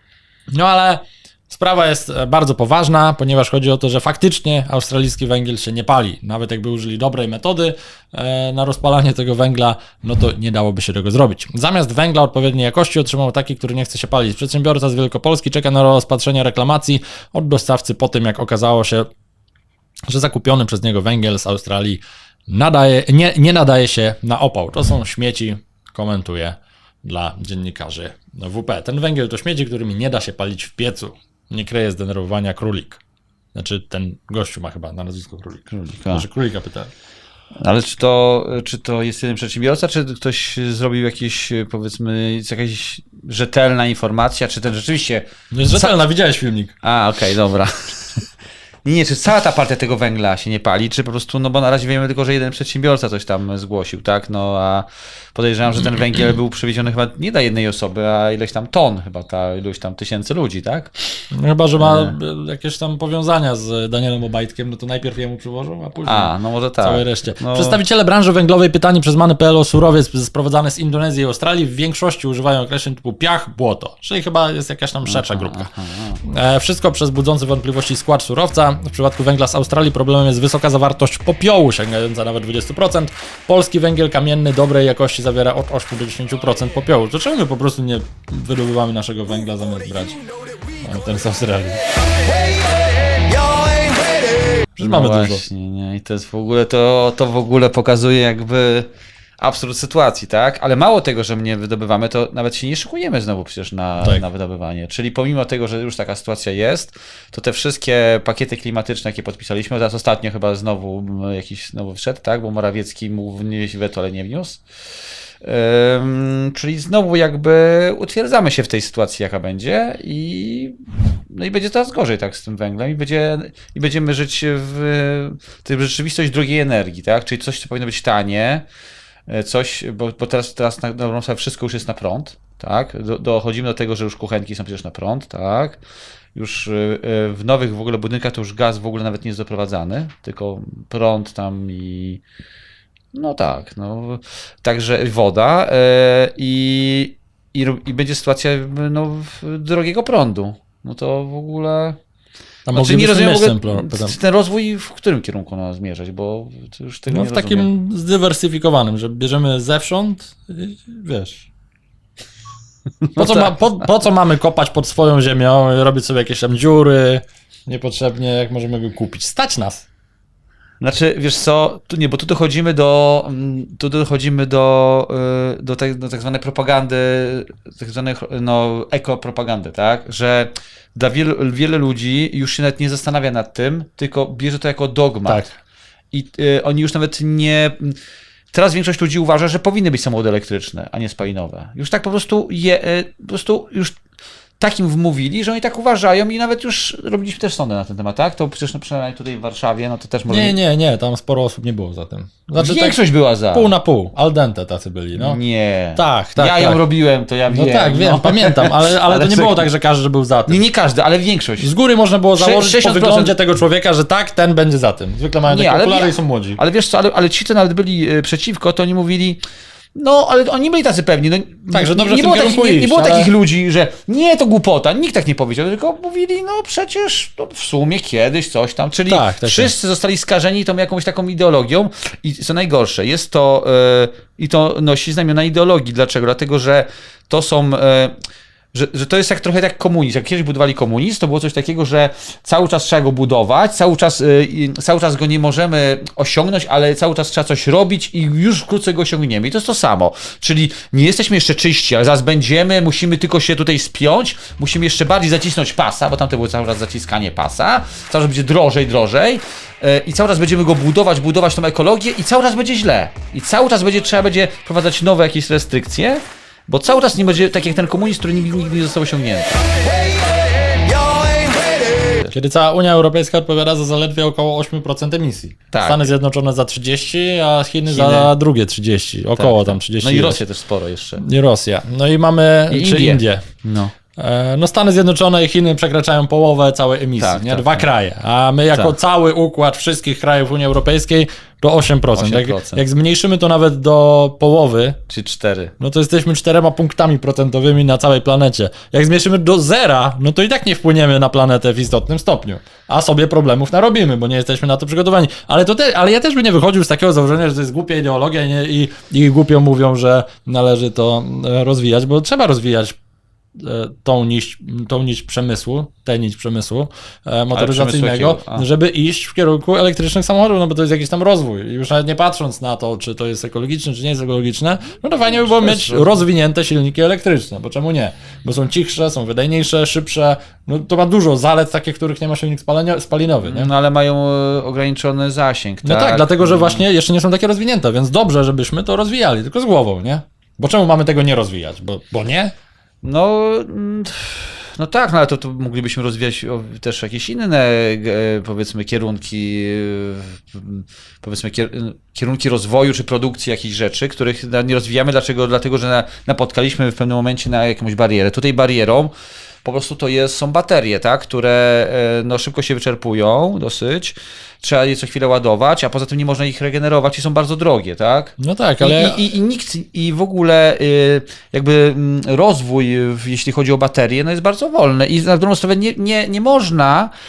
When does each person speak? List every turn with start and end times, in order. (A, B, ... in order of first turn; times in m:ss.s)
0:00.5-0:19.1 A
0:20.1-0:33.0 A
0:33.5-0:36.9 A
0:35.7-0:36.2 B
0:37.6-0:45.9 B
0:45.5-0:46.7 A
0:46.8-0:48.2 B
0:48.8-1:01.2 B
1:01.3-1:15.7 A
1:01.8-1:02.1 B
1:06.0-1:07.8 B
1:15.0-1:16.2 B
1:16.2-1:30.2 A
1:30.8-1:31.8 A
1:34.8-1:35.4 A
1:34.8-1:38.9 B
1:39.4-1:54.6 B
1:55.4-2:08.6 B
2:09.3-2:15.8 B
2:16.3-2:22.2 B
2:23.1-2:32.0 B
2:32.6-2:34.2 A
2:32.7-2:37.7 B
2:37.1-2:41.5 A
2:43.0-2:43.6 B
2:43.2-2:49.8 A
2:50.8-3:05.4 B
3:05.3-3:05.6 A
3:06.1-3:08.0 B
3:08.5-3:14.0 B
3:14.6-3:20.6 B
3:20.3-3:23.0 A
3:22.6-3:23.7 B
3:23.5-3:25.4 A
3:25.2-3:29.7 B
3:26.0-3:26.8 A
3:27.5-3:30.6 A
3:30.5-3:31.7 B
3:31.6-3:36.6 A
3:32.4-3:33.3 B
3:35.5-3:39.4 B
3:39.9-3:58.1 B
3:41.7-3:43.3 A
3:49.1-3:49.7 A
3:58.7-4:29.9 B
4:30.8-4:32.3 B
4:32.3-4:40.4 A
4:35.7-4:36.0 B
4:37.9-4:38.3 B
4:39.4-4:41.2 B
4:41.2-4:43.5 A
4:42.7-4:43.9 B
4:44.2-4:55.0 A
4:47.2-4:47.8 B
4:52.1-4:52.8 B
4:55.1-4:55.7 B
4:55.8-5:13.0 A
5:13.6-5:33.7 A
5:17.5-5:18.6 B
5:25.3-5:26.2 B
5:33.4-5:36.8 B
5:35.8-5:42.5 A
5:43.0-5:59.1 B
5:59.6-6:17.1 B
6:08.4-6:09.2 A